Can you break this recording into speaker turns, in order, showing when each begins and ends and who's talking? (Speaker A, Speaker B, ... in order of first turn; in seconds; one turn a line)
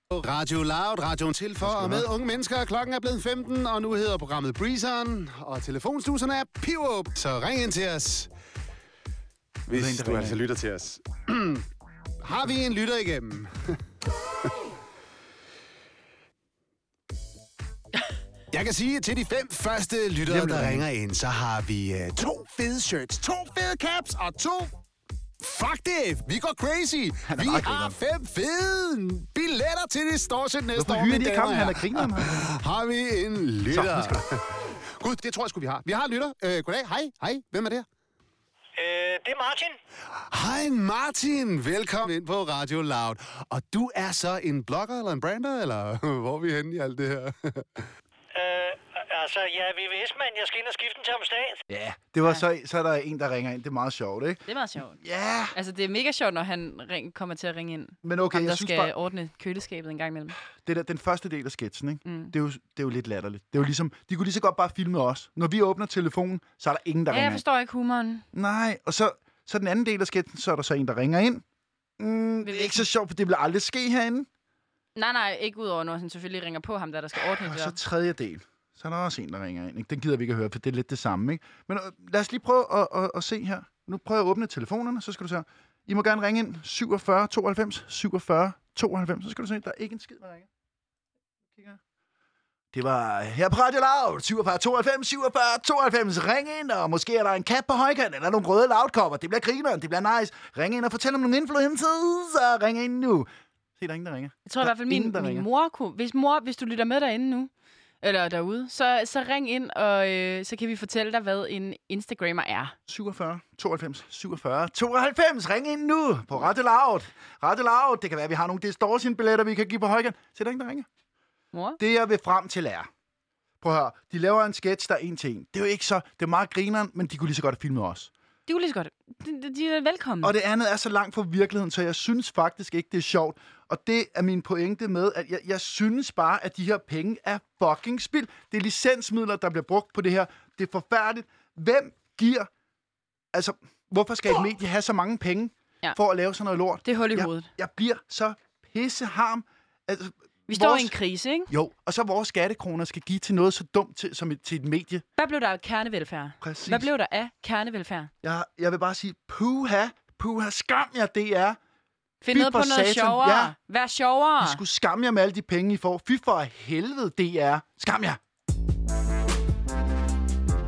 Speaker A: 0.1-8.3
Speaker B: 1.6-2.1
Speaker A: 9.7-11.6
Speaker B: 9.7-10.4
Speaker A: 12.2-13.8
Speaker A: 18.5-24.7
Speaker B: 20.2-20.9
Speaker A: 25.4-37.9
Speaker B: 27.2-27.9
Speaker B: 30.8-32.5
Speaker B: 33.7-34.2
Speaker C: 38.8-39.7
Speaker A: 40.1-47.8
Speaker C: 48.3-51.6
Speaker B: 51.7-54.4
Speaker D: 54.5-55.0
Speaker B: 55.0-55.5
Speaker D: 55.5-60.4
Speaker B: 58.0-58.9
Speaker B: 60.5-67.4
Speaker D: 62.0-62.3
Speaker D: 67.1-68.2
Speaker B: 68.3-71.4
Speaker B: 72.0-74.3
Speaker D: 72.4-72.8
Speaker D: 75.0-77.8
Speaker B: 77.3-90.5
Speaker B: 91.5-91.8
Speaker B: 92.7-105.5
Speaker D: 104.5-107.5
Speaker D: 108.0-112.7
Speaker B: 112.9-120.9
Speaker D: 121.5-121.8
Speaker B: 121.8-122.9
Speaker B: 123.6-128.1
Speaker D: 128.5-130.3
Speaker B: 130.2-142.5
Speaker B: 143.3-150.9
Speaker D: 146.8-147.5
Speaker D: 150.5-151.5
Speaker B: 151.5-155.0
Speaker D: 155.2-158.1
Speaker B: 156.4-156.9
Speaker B: 158.2-161.6
Speaker D: 162.2-164.6
Speaker B: 162.3-163.5
Speaker B: 164.4-168.2